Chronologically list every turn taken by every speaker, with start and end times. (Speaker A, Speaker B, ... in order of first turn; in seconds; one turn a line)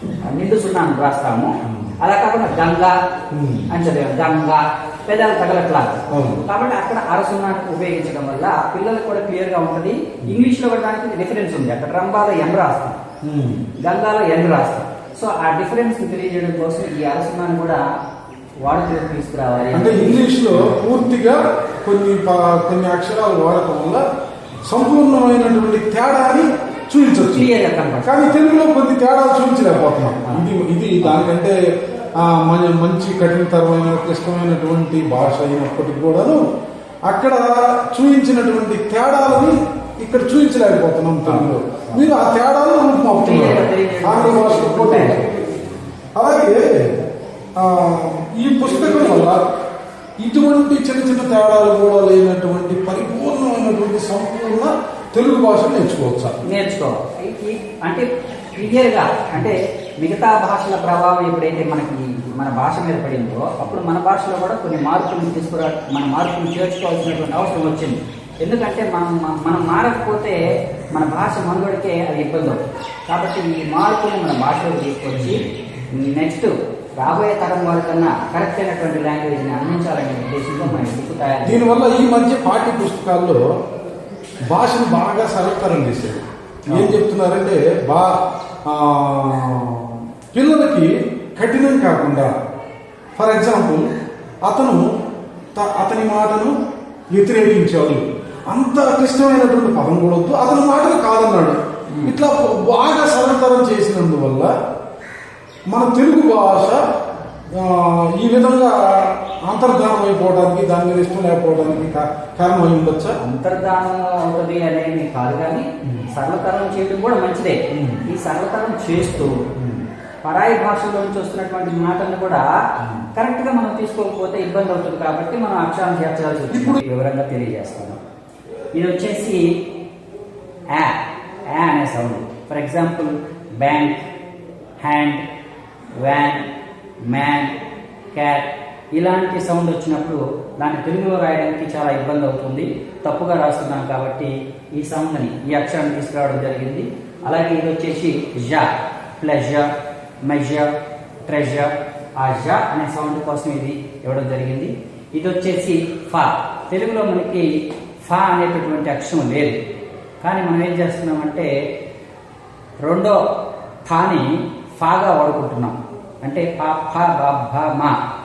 Speaker A: 0.2-3.0
Speaker B: 1.6-1.9
Speaker B: 3.3-3.7
Speaker A: 3.7-13.0
Speaker B: 6.1-6.4
Speaker B: 13.2-13.7
Speaker A: 13.8-17.8
Speaker A: 18.6-20.8
Speaker B: 19.7-24.0
Speaker B: 24.6-27.5
Speaker A: 27.3-28.3
Speaker B: 28.0-31.6
Speaker A: 31.0-31.3
Speaker B: 32.2-36.4
Speaker B: 37.1-45.2
Speaker A: 41.3-42.0
Speaker A: 43.2-45.3
Speaker B: 46.1-47.0
Speaker B: 47.5-49.4
Speaker A: 48.7-49.2
Speaker B: 50.2-56.3
Speaker A: 56.4-81.7
Speaker B: 75.1-75.5
Speaker B: 81.4-83.4
Speaker B: 84.5-92.3
Speaker A: 86.7-87.0
Speaker B: 93.2-93.8
Speaker B: 94.4-94.8
Speaker B: 95.5-96.5
Speaker B: 97.1-104.5
Speaker A: 101.9-102.2
Speaker B: 105.7-106.8
Speaker B: 107.5-113.2
Speaker A: 113.2-119.4
Speaker B: 115.8-116.1
Speaker B: 117.7-118.1
Speaker B: 119.5-119.8
Speaker A: 120.2-122.4
Speaker B: 122.8-123.0
Speaker A: 123.1-128.0
Speaker B: 126.5-126.8
Speaker A: 128.7-129.4
Speaker A: 131.5-134.0
Speaker A: 134.8-135.2
Speaker A: 136.0-136.4
Speaker A: 137.0-137.5
Speaker A: 138.1-149.7
Speaker A: 150.3-150.7
Speaker A: 151.3-157.5
Speaker A: 158.0-159.6
Speaker A: 160.2-161.5
Speaker A: 162.8-163.2
Speaker A: 163.9-167.9